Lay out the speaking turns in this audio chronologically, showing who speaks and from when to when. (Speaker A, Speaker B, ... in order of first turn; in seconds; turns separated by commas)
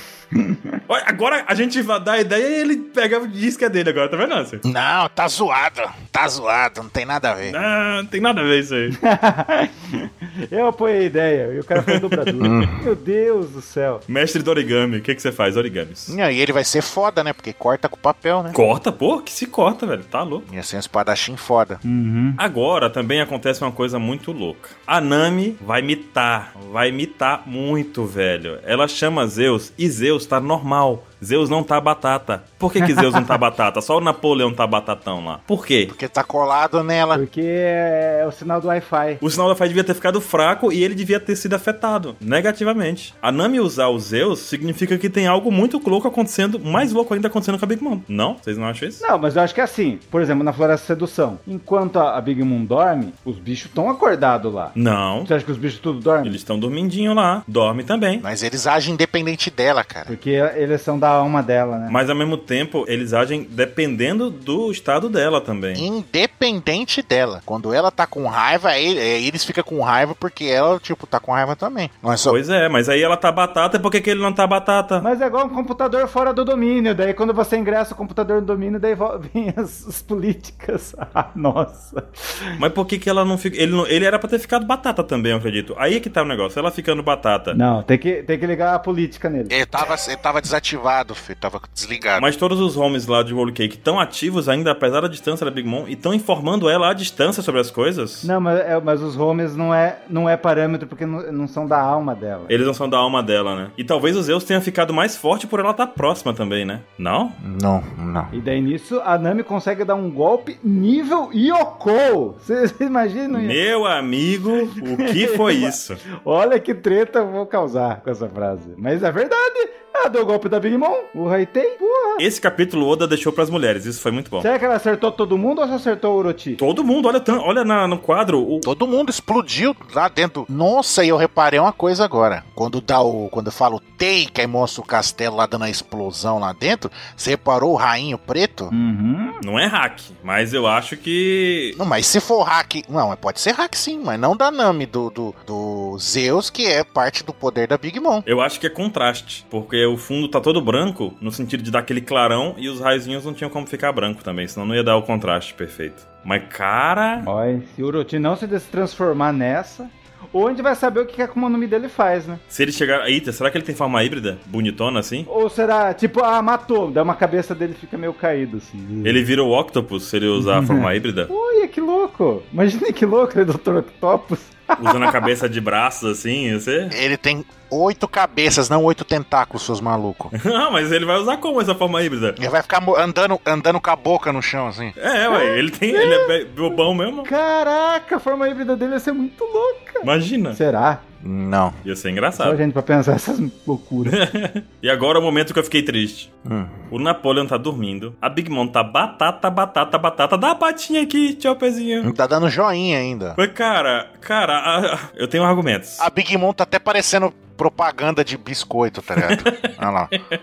Speaker A: 0.3-0.8, Speaker B: 0.9-4.6, Speaker C: 4.6-7.6, Speaker B: 7.4-9.0, Speaker A: 9.0-14.0, Speaker B: 11.8-12.3, Speaker C: 12.4-12.8, Speaker B: 14.1-16.1, Speaker C: 16.1-18.6, Speaker B: 18.5-20.4, Speaker C: 20.5-21.8, Speaker A: 21.8-22.4, Speaker B: 22.4-35.9, Speaker A: 32.8-33.4, Speaker C: 35.9-37.2, Speaker A: 37.1-39.2, Speaker B: 39.2-49.0, Speaker A: 49.0-56.4, Speaker B: 54.7-55.3, Speaker B: 56.2-58.2, Speaker C: 58.2-60.1, Speaker A: 60.1-62.0, Speaker B: 61.9-65.8, Speaker C: 65.7-72.4, Speaker B: 72.3-75.0, Speaker A: 75.0-82.5, Speaker B: 82.6-87.6, Speaker A: 87.5-89.5, Speaker C: 89.5-92.2, Speaker B: 92.2-98.3, Speaker A: 98.2-102.5, Speaker B: 102.5-107.4, Speaker C: 107.4-108.3, Speaker A: 108.3-113.6, Speaker B: 113.3-116.0, Speaker A: 114.7-122.2, Speaker B: 122.2-124.5, Speaker A: 124.4-126.6, Speaker B: 126.6-128.7, Speaker C: 128.6-138.7, Speaker A: 138.7-139.4, Speaker B: 139.4-141.8, Speaker C: 141.7-148.2, Speaker B: 148.2-157.3, Speaker A: 157.2-162.4, Speaker B: 162.5-165.3, Speaker A: 165.3-169.2, Speaker B: 169.0-171.3, Speaker A: 170.4-175.2, Speaker B: 174.8-176.9, Speaker C: 176.9-180.3, Speaker B: 180.3-182.4, Speaker C: 182.4-184.9, Speaker B: 185.0-187.3, Speaker A: 185.3-191.0, Speaker B: 190.0-190.6, Speaker C: 191.2-191.7, Speaker B: 191.8-192.6, Speaker A: 192.3-194.2, Speaker B: 194.0-196.3, Speaker C: 196.4-196.8, Speaker B: 196.9-202.1, Speaker C: 202.0-203.4, Speaker B: 203.4-206.0, Speaker C: 206.0-210.1, Speaker B: 209.2-209.7